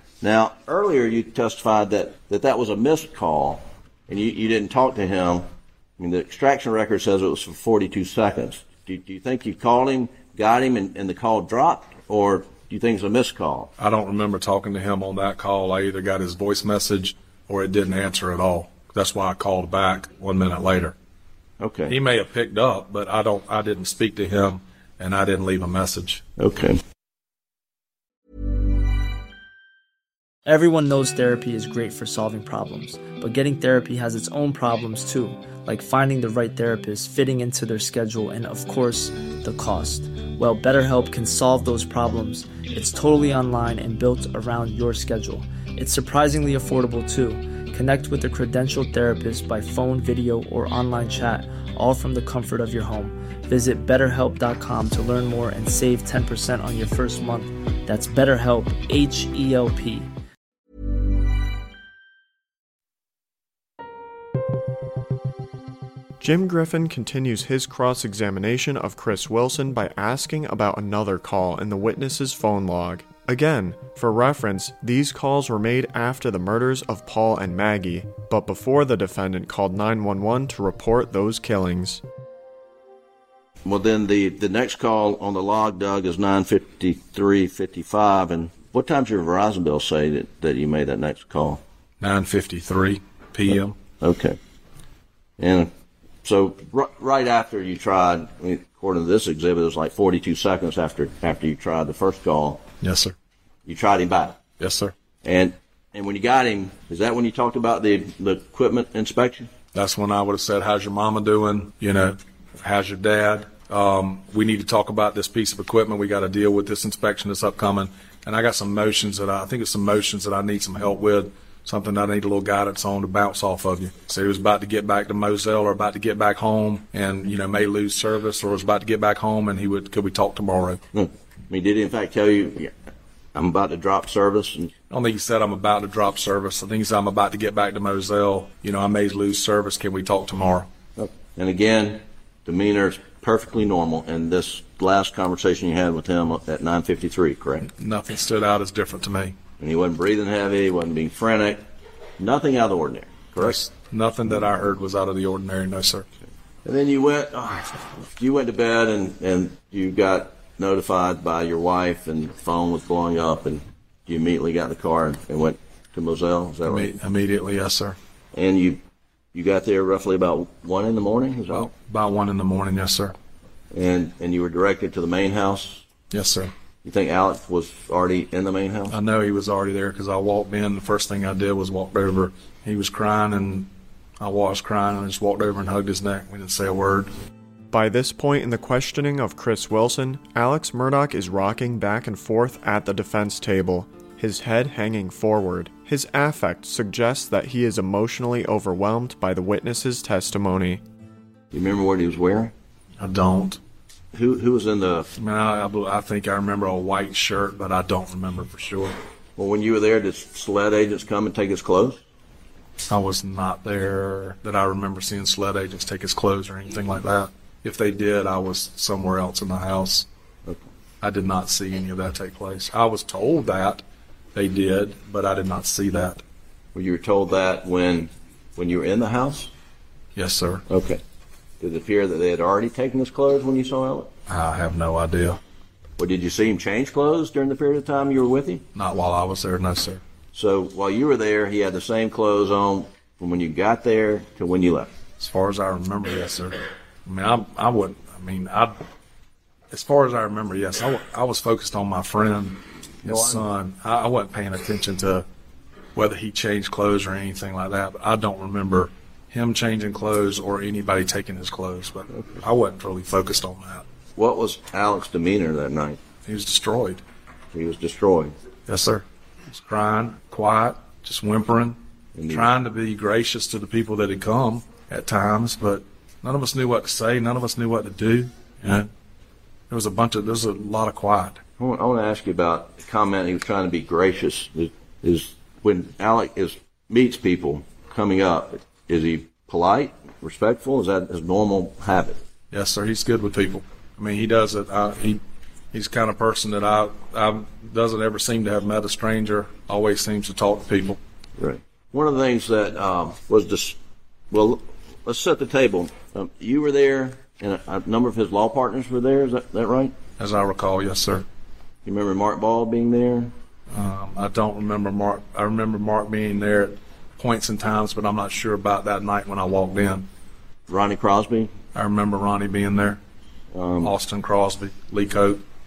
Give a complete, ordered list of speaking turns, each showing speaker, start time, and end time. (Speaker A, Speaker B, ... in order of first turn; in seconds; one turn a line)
Speaker A: 0.2-13.7
Speaker B: 13.8-20.9
Speaker A: 21.6-21.9
Speaker B: 21.9-26.2
Speaker A: 26.4-26.8
Speaker C: 30.4-60.1
Speaker D: 66.2-82.0
Speaker A: 83.6-91.6
Speaker B: 92.0-93.7
Speaker A: 94.0-94.4
Speaker A: 95.4-95.7
Speaker A: 96.2-102.6
Speaker B: 102.8-103.1
Speaker A: 103.7-104.4
Speaker B: 104.6-104.9
Speaker A: 105.2-109.5
Speaker B: 109.7-130.8
Speaker A: 130.9-132.7
Speaker A: 133.3-134.7
Speaker B: 134.9-140.7
Speaker A: 141.0-147.7
Speaker B: 147.7-149.4
Speaker A: 149.6-151.6
Speaker A: 152.2-153.6
Speaker B: 153.4-156.1
Speaker A: 156.6-166.9
Speaker B: 166.7-168.0
Speaker A: 168.3-168.8
Speaker A: 169.3-171.7
Speaker B: 171.5-173.1
Speaker A: 173.7-175.8
Speaker B: 176.1-176.5
Speaker A: 176.8-178.9
Speaker B: 178.9-187.1
Speaker D: 187.7-200.8
Speaker A: 201.5-202.5
Speaker B: 203.0-203.6
Speaker A: 204.1-205.1
Speaker B: 205.2-209.0
Speaker A: 209.4-212.0
Speaker B: 212.9-220.1
Speaker B: 221.0-223.8
Speaker B: 224.3-226.2
Speaker A: 226.7-229.5
Speaker B: 230.2-230.7
Speaker A: 230.7-231.0
Speaker A: 231.6-234.1
Speaker B: 234.3-235.4
Speaker A: 236.0-238.6
Speaker B: 238.7-240.0
Speaker A: 240.3-244.9
Speaker B: 245.2-248.8
Speaker B: 249.7-255.2
Speaker A: 253.0-253.4
Speaker B: 255.9-263.8
Speaker A: 264.1-266.0
Speaker B: 266.2-267.0
Speaker A: 267.5-268.3
Speaker B: 268.7-271.8
Speaker A: 272.1-272.5
Speaker B: 272.3-278.9
Speaker B: 279.7-281.4
Speaker A: 281.6-292.2
Speaker B: 292.5-295.2
Speaker B: 295.7-301.0
Speaker A: 301.4-303.8
Speaker A: 304.3-309.9
Speaker B: 310.2-311.2
Speaker A: 311.8-313.3
Speaker B: 313.7-320.1
Speaker A: 320.7-321.5
Speaker B: 321.7-323.0
Speaker A: 323.5-323.9
Speaker B: 323.8-325.4